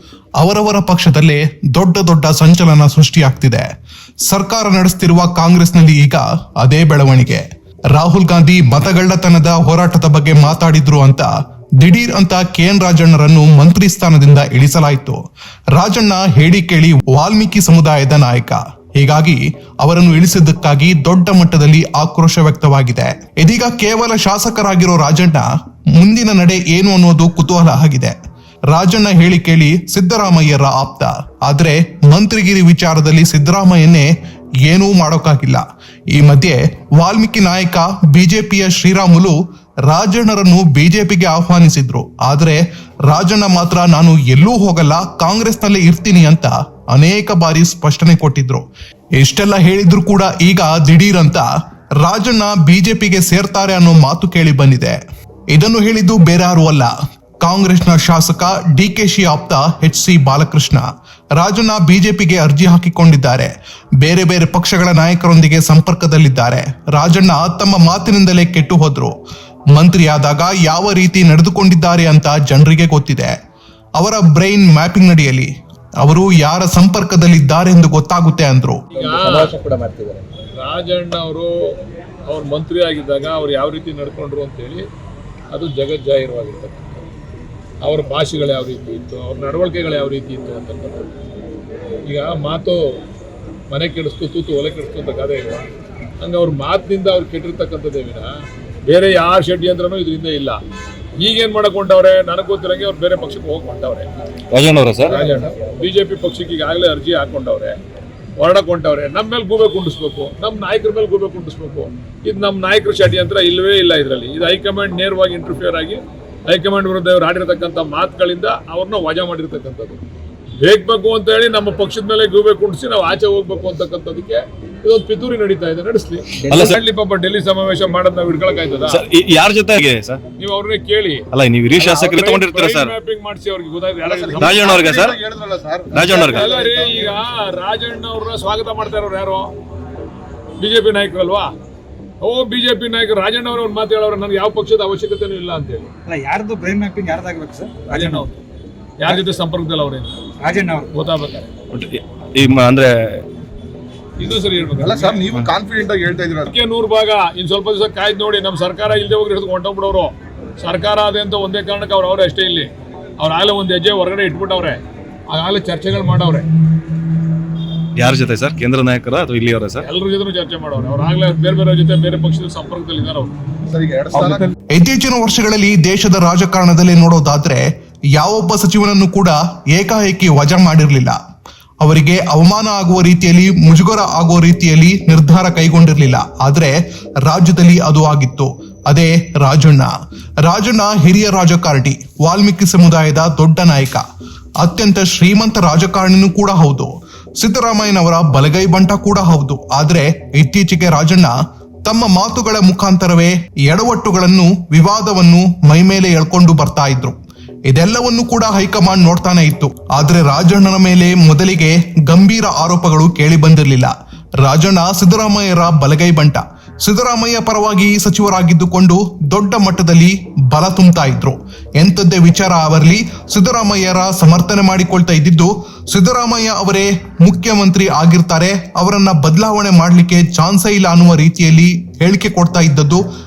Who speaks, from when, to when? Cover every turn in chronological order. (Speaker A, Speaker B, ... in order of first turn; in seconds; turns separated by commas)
Speaker A: 0.4-3.7, Speaker A: 4.3-11.3, Speaker A: 11.8-15.2, Speaker A: 15.7-28.2, Speaker A: 28.7-34.1, Speaker A: 34.6-48.6, Speaker A: 49.2-51.5, Speaker A: 52.0-60.9, Speaker A: 61.4-69.1, Speaker A: 69.7-73.3, Speaker A: 74.0-75.5, Speaker A: 76.0-78.8, Speaker B: 78.9-79.5, Speaker C: 78.9-80.2, Speaker B: 80.6-81.5, Speaker B: 82.2-84.8, Speaker B: 85.5-87.1, Speaker B: 87.8-91.1, Speaker B: 92.1-93.0, Speaker B: 93.7-95.7, Speaker B: 96.2-98.3, Speaker B: 98.9-100.6, Speaker B: 101.2-104.1, Speaker D: 104.5-105.2, Speaker B: 105.1-107.8, Speaker E: 105.1-105.4, Speaker B: 108.4-120.0, Speaker B: 120.6-129.0, Speaker C: 126.4-126.8, Speaker D: 126.5-126.8, Speaker D: 128.9-130.2, Speaker B: 130.4-131.2, Speaker D: 131.3-132.9, Speaker E: 131.8-132.2, Speaker B: 132.0-134.9, Speaker E: 134.0-137.2, Speaker D: 134.4-135.2, Speaker D: 135.9-136.5, Speaker B: 136.2-139.5, Speaker B: 140.6-141.5, Speaker B: 142.2-145.9, Speaker C: 146.1-148.3, Speaker B: 147.9-148.3, Speaker B: 149.0-150.2, Speaker C: 150.4-150.9, Speaker B: 150.9-151.5, Speaker D: 151.7-153.2, Speaker B: 154.2-155.3, Speaker E: 154.8-156.5, Speaker B: 156.5-166.5, Speaker D: 168.0-169.8, Speaker B: 169.8-173.3, Speaker E: 173.7-174.5, Speaker A: 174.7-181.2, Speaker A: 181.8-189.9, Speaker A: 190.4-194.0, Speaker A: 194.6-201.3, Speaker A: 201.8-207.2, Speaker A: 207.7-233.0